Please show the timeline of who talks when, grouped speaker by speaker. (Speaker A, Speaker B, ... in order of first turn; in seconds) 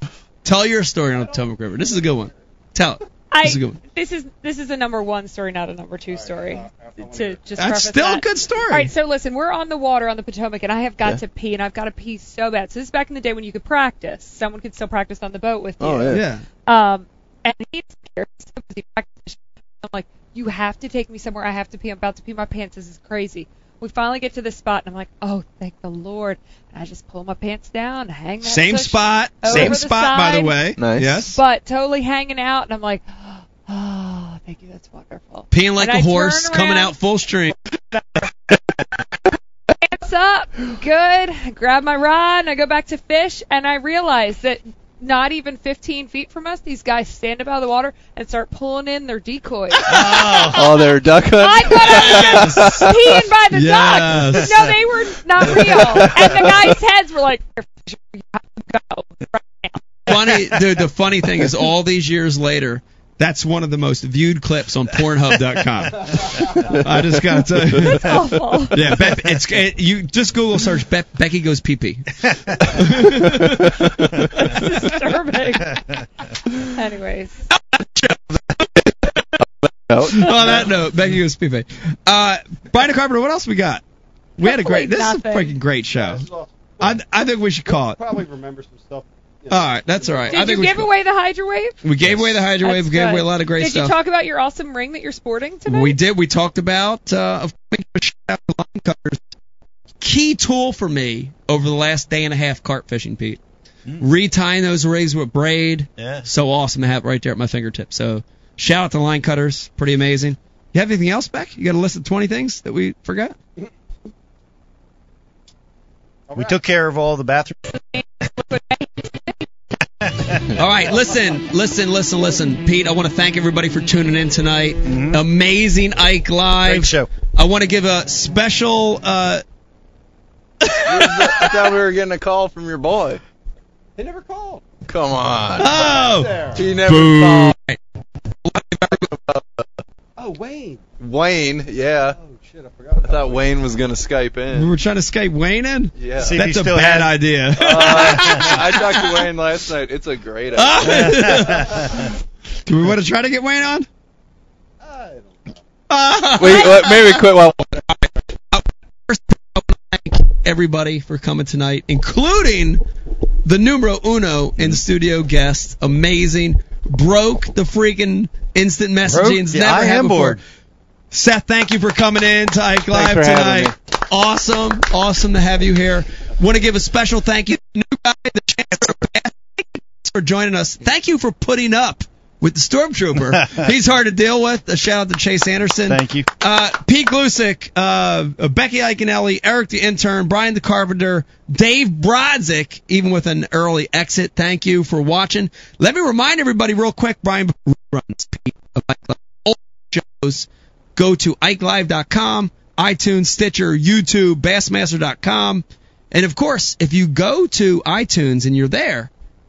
Speaker A: 0.4-3.8, 7.6-8.9, 16.1-16.4, 28.4-31.4, 35.5-37.6, 49.9-50.3, 51.9-52.9, 53.5-54.5, 60.1-68.1, 68.7-74.5, 77.5-79.3, 80.1-83.8, 84.4-86.3, 86.8-88.0, 89.5-90.9, 91.8-94.0, 95.7-99.2, 100.0-103.4, 104.0-113.4, 120.5-129.4, 130.6-131.5, 135.6-137.8, 138.4-139.1, 144.5-149.1, 150.6-152.1, 152.7-153.9, 155.9-157.2, 158.5-162.8, 163.4-170.4, 171.1-209.1
Speaker B: 3.3-30.6, 31.3-37.0, 37.9-38.2, 39.8-60.4, 67.9-68.8, 74.5-75.8, 76.8-77.5, 84.4-85.6, 90.3-91.8, 92.6-96.0, 117.7-119.5
Speaker C: 6.1-7.8, 85.9-87.1, 87.6-90.8, 116.3-116.6, 134.0-134.6, 135.6-136.7, 140.2-140.8, 142.1-143.6, 154.8-155.6
Speaker D: 15.8-16.2, 30.8-31.2, 49.9-53.2, 55.7-56.4, 67.7-68.0, 73.8-74.3, 79.9-80.6, 130.8-133.2, 134.9-135.7, 136.6-137.6, 139.0-139.7, 141.0-142.2, 143.0-144.7, 146.0-146.4, 147.6-151.2, 156.4-157.8, 172.9-173.7
Speaker E: 49.9-50.5, 106.0-106.3, 116.3-117.7, 120.0-120.5, 124.8-125.2, 126.6-127.1, 146.2-147.2, 147.9-148.5, 150.9-151.8, 169.1-170.4, 185.9-186.3